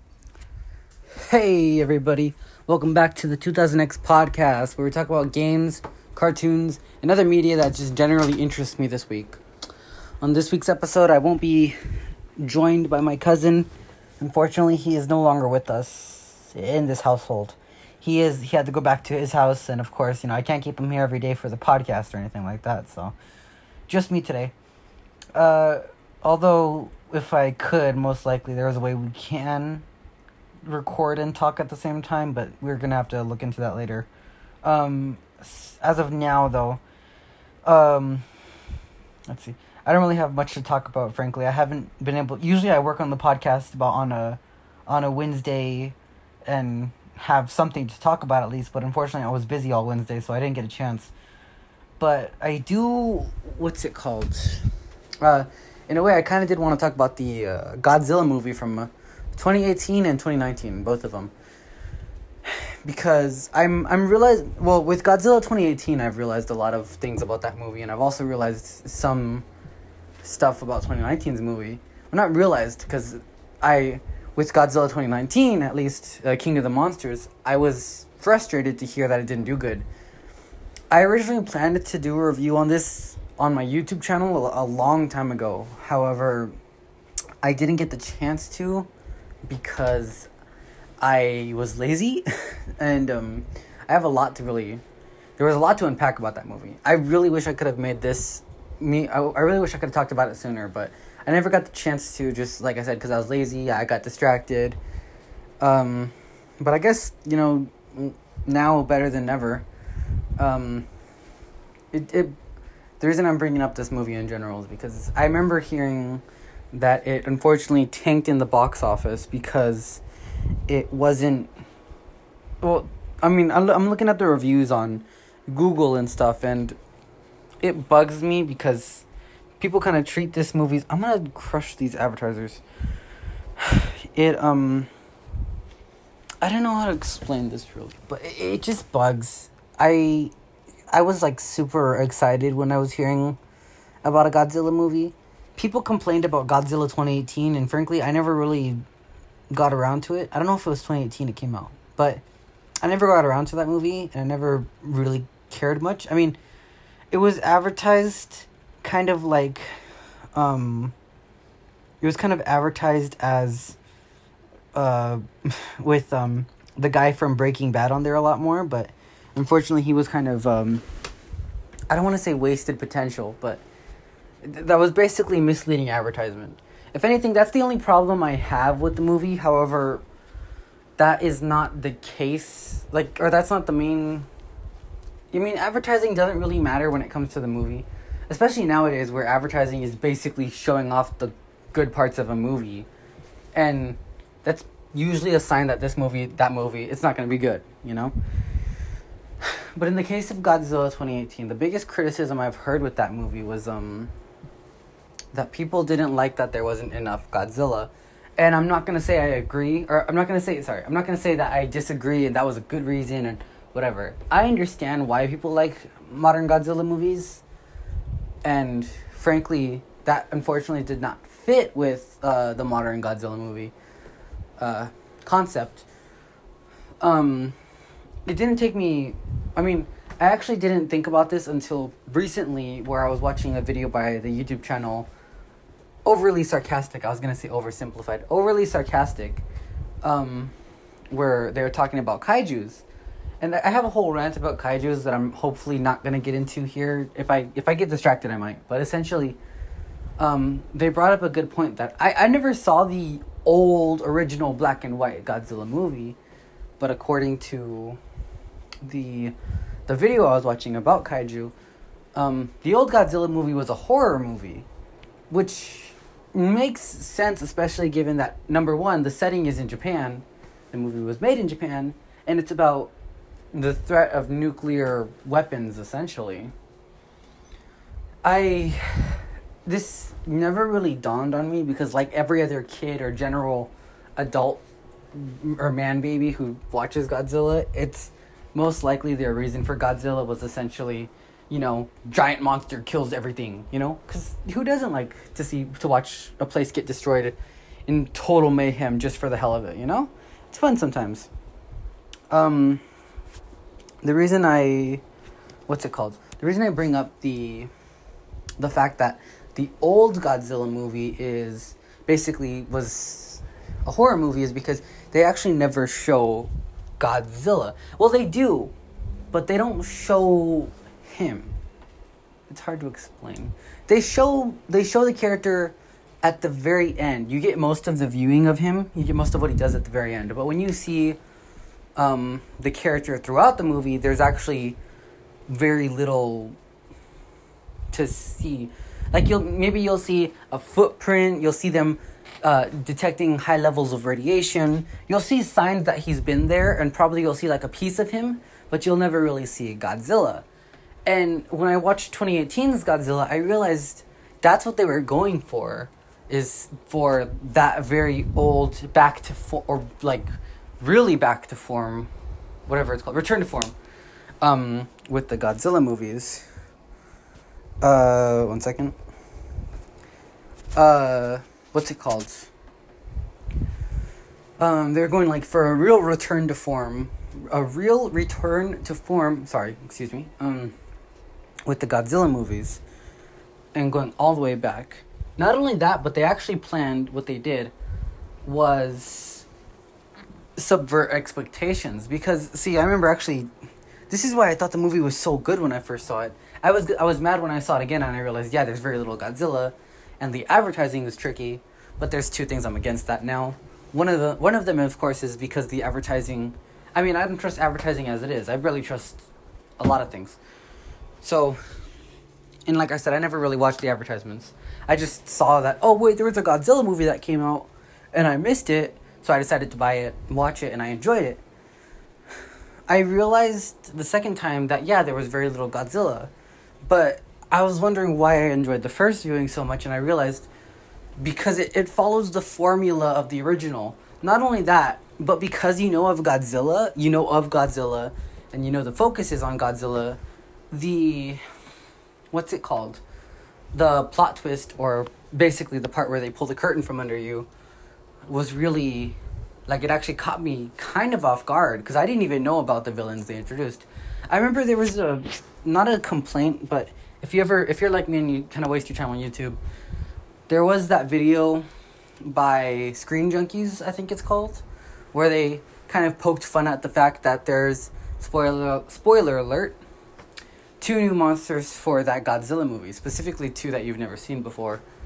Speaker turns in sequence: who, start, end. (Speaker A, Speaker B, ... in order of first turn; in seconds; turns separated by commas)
Speaker A: 1.2-9.4, Speaker A: 10.2-11.8, Speaker A: 12.4-13.7, Speaker A: 14.2-23.1, Speaker A: 23.9-24.5, Speaker A: 25.3-29.8, Speaker A: 30.6-34.1, Speaker A: 34.6-36.8, Speaker A: 37.6-38.2, Speaker A: 39.3-46.0, Speaker A: 46.5-51.1, Speaker A: 52.0-54.6, Speaker A: 55.2-61.3, Speaker A: 62.5-69.4, Speaker A: 70.2-79.8, Speaker A: 80.9-86.5, Speaker A: 87.4-88.9, Speaker A: 89.5-90.3, Speaker A: 91.0-94.8, Speaker A: 95.4-104.8, Speaker A: 105.6-109.7, Speaker A: 110.4-110.9, Speaker A: 111.9-112.3, Speaker A: 113.0-120.0, Speaker A: 120.7-121.5, Speaker A: 122.6-126.8, Speaker A: 127.6-129.0, Speaker A: 129.6-132.6, Speaker A: 133.6-134.9, Speaker A: 136.4-140.3, Speaker A: 140.9-143.4, Speaker A: 144.0-148.8, Speaker A: 149.5-152.2, Speaker A: 152.8-156.4, Speaker A: 157.1-159.7, Speaker A: 160.3-160.9, Speaker A: 162.0-163.8, Speaker A: 164.7-170.8, Speaker A: 171.9-173.6, Speaker A: 174.4-180.0, Speaker A: 181.0-184.3, Speaker A: 185.3-192.9, Speaker A: 193.5-198.1, Speaker A: 199.4-204.1, Speaker A: 205.3-217.4, Speaker A: 218.4-223.7, Speaker A: 224.6-225.8, Speaker A: 227.0-227.5, Speaker A: 228.2-235.1, Speaker A: 236.0-239.4, Speaker A: 240.0-240.5, Speaker A: 241.1-242.8, Speaker A: 243.4-249.4, Speaker A: 250.2-256.2, Speaker A: 256.8-258.0, Speaker A: 258.8-259.3, Speaker A: 259.9-261.5, Speaker A: 262.1-264.7, Speaker A: 265.3-272.9, Speaker A: 273.5-276.5, Speaker A: 278.2-284.6, Speaker A: 285.1-297.4, Speaker A: 297.9-301.3, Speaker A: 302.3-302.8, Speaker A: 304.0-305.0, Speaker A: 305.7-307.7, Speaker A: 308.6-318.7, Speaker A: 319.3-321.6, Speaker A: 322.5-331.2, Speaker A: 332.0-334.8, Speaker A: 335.5-336.6, Speaker A: 337.9-350.4, Speaker A: 351.0-360.3, Speaker A: 360.8-362.1, Speaker A: 362.7-363.7, Speaker A: 364.4-366.4, Speaker A: 367.8-368.9, Speaker A: 370.7-372.5, Speaker A: 374.6-380.7, Speaker A: 381.6-382.8, Speaker A: 383.7-387.7, Speaker A: 388.4-389.4, Speaker A: 390.6-393.5, Speaker A: 394.1-409.2, Speaker A: 409.8-410.4, Speaker A: 411.2-411.6, Speaker A: 412.7-421.4, Speaker A: 422.9-426.3, Speaker A: 426.8-430.5, Speaker A: 431.2-440.2, Speaker A: 440.7-441.4, Speaker A: 442.3-443.0, Speaker A: 443.7-447.5, Speaker A: 448.3-459.6, Speaker A: 460.5-461.6, Speaker A: 462.2-469.8, Speaker A: 470.8-474.8